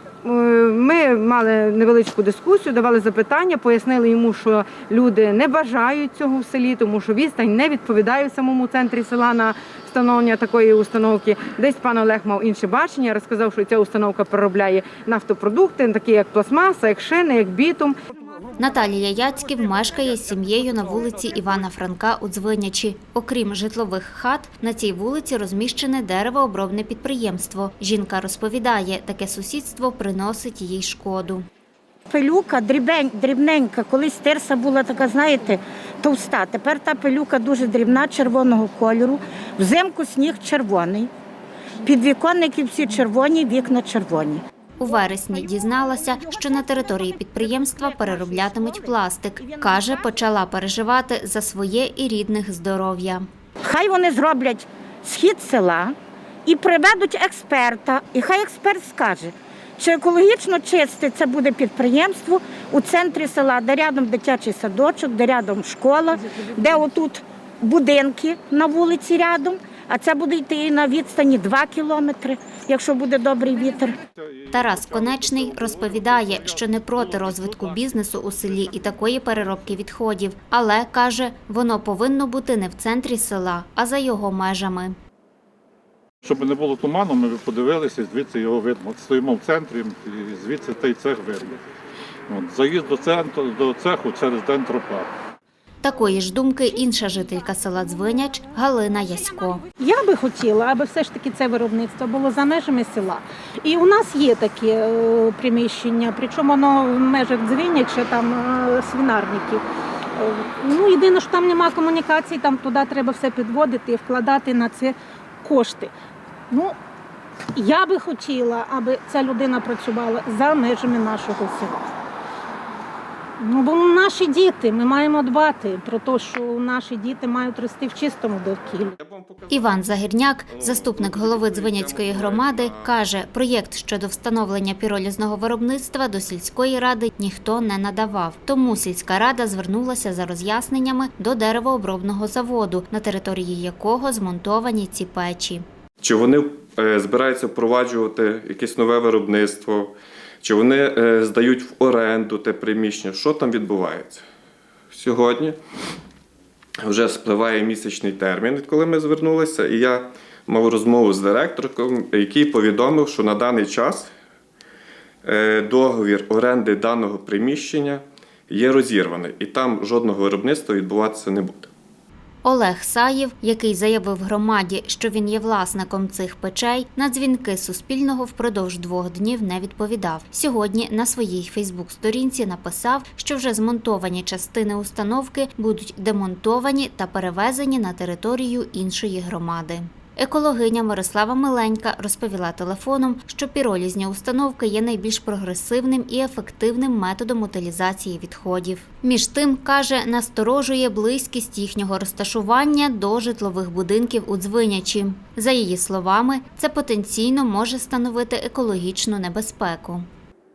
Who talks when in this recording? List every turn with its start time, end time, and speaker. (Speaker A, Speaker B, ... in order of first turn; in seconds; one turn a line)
Speaker A: 0.2-18.0
Speaker B: 18.6-31.5
Speaker C: 32.1-41.1
Speaker C: 41.9-44.4
Speaker B: 44.8-53.3
Speaker C: 45.3-50.1
Speaker C: 53.6-74.0
Speaker D: 73.5-79.8
Speaker B: 74.5-84.9
Speaker D: 86.2-91.6
Speaker D: 92.3-95.1
Speaker B: 95.8-99.6
Speaker E: 99.8-109.6
Speaker E: 110.2-115.9
Speaker E: 116.5-116.8
Speaker E: 117.6-121.9
Speaker E: 123.4-129.0
Speaker F: 129.0-129.9
Speaker B: 129.5-145.6
Speaker F: 130.5-132.9
Speaker F: 146.0-154.2
Speaker F: 154.9-155.6
Speaker F: 156.8-164.1
Speaker F: 165.2-171.7
Speaker B: 172.4-210.1